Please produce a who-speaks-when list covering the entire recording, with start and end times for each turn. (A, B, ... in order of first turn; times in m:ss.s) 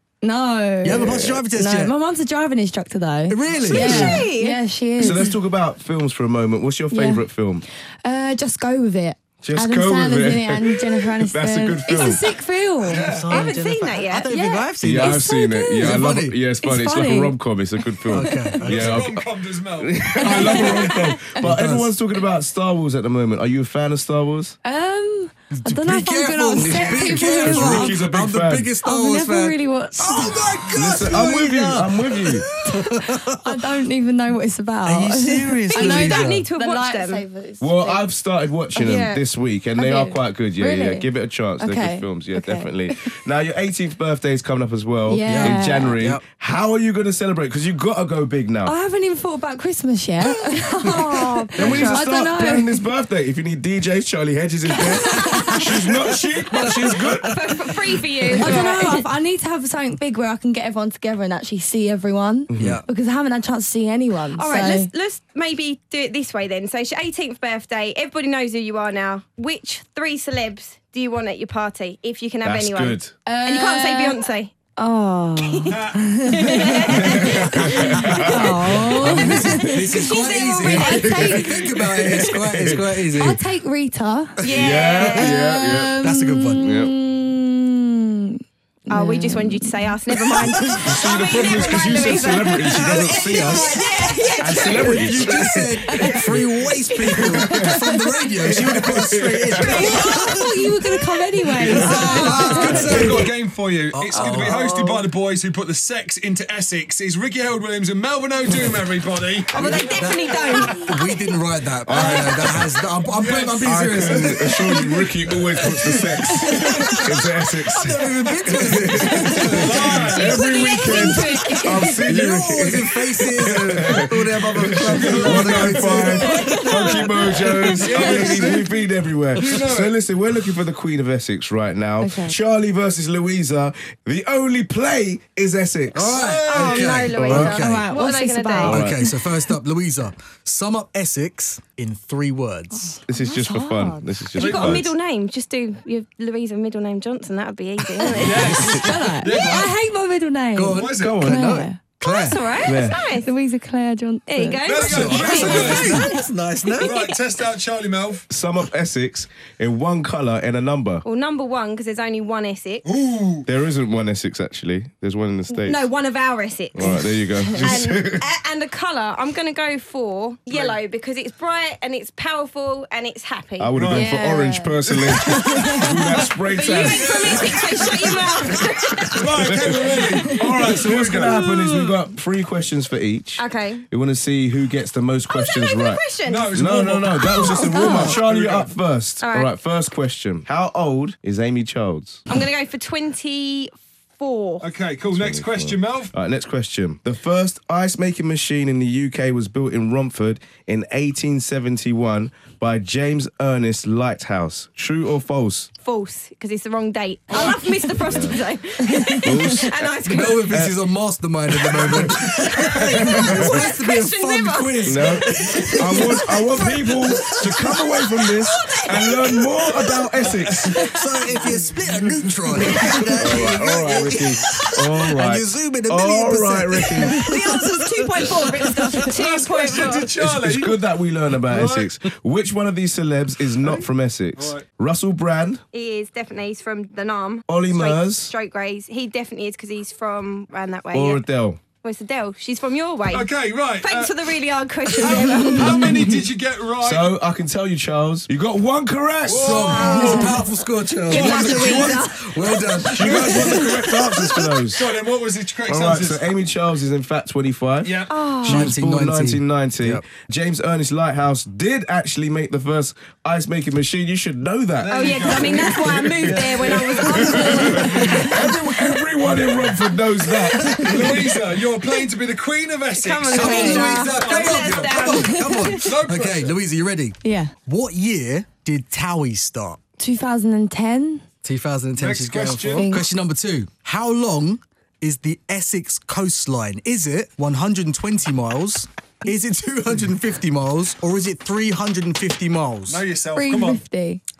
0:00.2-0:05.3 A
0:00.8-0:01.9 B
0:00.8-0:01.4 C
0:03.3-0:04.2 B
0:03.6-0:05.2 D
0:05.0-0:07.6 C
0:06.9-0:07.2 A
0:08.0-0:13.1 A
0:09.4-0:12.2 C
0:12.8-0:16.4 B
0:12.8-0:13.3 E
0:13.3-0:14.3 D
0:14.3-0:16.0 A
0:14.8-0:19.2 C
0:16.6-0:17.4 A
0:18.0-0:18.8 A
0:18.1-0:19.1 B
0:18.6-0:21.1 E
0:19.8-0:24.6 C
0:20.2-0:21.3 A
0:21.4-0:21.9 B
0:24.6-0:28.0 A
0:25.5-0:33.6 B
0:26.6-0:28.7 C
0:28.8-0:30.6 A
0:30.7-0:32.4 C
0:32.6-0:38.1 A
0:34.8-0:36.5 B
0:35.7-0:37.2 D
0:37.6-0:48.8 C
0:38.8-0:39.2 A
0:39.8-0:40.1 D
0:39.8-0:41.1 A
0:41.6-0:43.1 A
0:45.1-0:46.0 A
0:45.3-0:46.2 B
0:48.7-0:52.8 A
0:50.9-0:52.0 D
0:51.6-0:57.4 C
0:55.0-0:55.6 A
0:55.2-0:55.7 B
0:56.5-0:57.4 B
0:57.2-0:59.1 D
0:58.3-1:04.9 A
0:58.3-0:58.6 B
1:02.5-1:02.8 C
1:02.6-1:02.8 B
1:04.3-1:14.6 D
1:12.4-1:13.1 C
1:13.2-1:14.2 A
1:14.8-1:21.7 A
1:15.4-1:17.5 D
1:15.7-1:16.0 E
1:16.9-1:19.1 C
1:18.2-1:18.6 D
1:18.5-1:23.4 B
1:19.2-1:21.1 D
1:20.6-1:22.9 C
1:23.1-1:24.5 A
1:24.4-1:25.5 D
1:24.5-1:26.0 C
1:25.0-1:30.0 A
1:26.0-1:26.6 B
1:26.6-1:26.9 C
1:28.9-1:36.2 D
1:30.4-1:33.8 C
1:32.7-1:33.8 B
1:34.4-1:35.7 C
1:34.6-1:40.7 B
1:35.9-1:36.2 A
1:37.0-1:37.7 C
1:37.3-1:38.0 A
1:38.4-1:40.0 C
1:39.7-1:43.2 A
1:41.6-1:49.9 E
1:41.6-1:43.3 B
1:41.6-1:43.2 C
1:43.9-1:44.7 B
1:44.2-1:44.6 D
1:44.6-1:45.0 A
1:49.5-1:50.9 D
1:49.5-1:55.0 B
1:51.8-1:52.7 C
1:53.1-1:54.2 E
1:53.6-2:16.2 C
1:55.6-1:57.0 B
1:56.4-1:57.0 A
1:57.8-2:00.2 B
1:59.1-2:02.0 A
1:59.4-2:00.4 E
2:01.4-2:06.9 B
2:04.7-2:07.0 E
2:06.1-2:08.1 A
2:07.7-2:08.7 E
2:09.4-2:10.0 E
2:12.0-2:12.3 A
2:15.9-2:17.9 B
2:16.1-2:16.9 E
2:16.1-2:18.8 D
2:17.1-2:17.6 C
2:17.5-2:19.0 A
2:18.6-2:23.0 B
2:18.6-2:19.0 C
2:23.0-2:24.8 A
2:23.1-2:24.9 C
2:24.4-2:28.6 D
2:24.4-2:24.8 E
2:28.0-2:31.9 A
2:28.2-2:29.7 E
2:30.5-2:32.5 B
2:30.8-2:31.2 E
2:30.9-2:31.5 C
2:32.0-2:33.3 D
2:32.6-2:33.0 C
2:33.1-2:36.3 A
2:34.3-2:35.8 D
2:34.6-2:36.1 E
2:34.7-2:37.0 B
2:36.7-2:37.2 D
2:36.8-2:38.3 E
2:38.3-2:41.0 C
2:41.0-2:42.8 D
2:42.8-2:43.5 E
2:43.4-2:45.9 C
2:45.5-2:53.8 D
2:46.7-2:48.2 C
2:50.5-2:50.8 E
2:53.6-2:57.9 C
2:53.7-2:54.1 E
2:53.9-2:56.3 A
2:55.5-2:55.8 D
2:56.5-3:01.9 D
2:56.8-2:58.5 E
2:59.2-3:01.4 E
2:59.2-3:12.2 C
3:00.2-3:00.5 A
3:03.4-3:03.8 D
3:05.3-3:06.6 D
3:06.2-3:08.7 E
3:07.3-3:08.2 A
3:07.4-3:08.0 D
3:09.2-3:09.5 D
3:12.3-3:14.7 D
3:14.6-3:16.1 E
3:15.1-3:25.7 C
3:25.8-3:30.6 D
3:27.3-3:28.4 C
3:28.8-3:29.7 A
3:29.2-3:30.8 C
3:30.1-3:37.7 B
3:31.7-3:33.6 C
3:33.5-3:35.8 D
3:34.8-3:40.8 C
3:36.0-3:37.4 A
3:38.4-3:40.0 A
3:40.2-3:40.7 E
3:40.7-3:41.5 A
3:40.8-3:49.1 B
3:41.9-3:43.5 E
3:42.8-3:43.1 A
3:43.2-3:47.2 C
3:47.1-3:47.5 A
3:47.2-3:50.1 D
3:48.2-3:49.0 A
3:49.0-3:50.7 E
3:50.2-3:55.6 C
3:51.4-3:51.9 E
3:53.6-3:54.6 E
3:55.7-4:01.2 D
3:57.5-3:58.3 C
4:00.9-4:01.6 C
4:01.8-4:06.0 D
4:03.1-4:07.1 E
4:05.0-4:06.2 A
4:06.8-4:10.0 C
4:09.2-4:10.3 E
4:09.3-4:13.6 B
4:09.7-4:10.5 D
4:09.8-4:10.4 A
4:11.0-4:14.5 A
4:11.1-4:12.0 E
4:11.1-4:12.1 C
4:12.7-4:13.4 E
4:12.8-4:14.9 C
4:14.6-4:16.3 E
4:15.7-4:25.5 C
4:17.8-4:18.1 E
4:18.1-4:18.7 D
4:18.4-4:20.0 B
4:24.8-4:28.2 E
4:24.9-4:27.9 D
4:26.2-4:31.2 C
4:27.7-4:28.4 A
4:30.5-4:31.2 A
4:30.8-4:31.1 B
4:30.9-4:35.2 E
4:32.9-4:35.5 D
4:33.2-4:39.8 B
4:33.4-4:33.9 A
4:35.0-4:36.0 A
4:35.8-4:36.6 E
4:37.2-4:37.5 A
4:40.0-4:41.2 A
4:41.4-4:53.0 B
4:42.0-4:43.0 E
4:42.6-4:43.0 A
4:52.9-4:53.8 E
4:53.3-4:54.2 A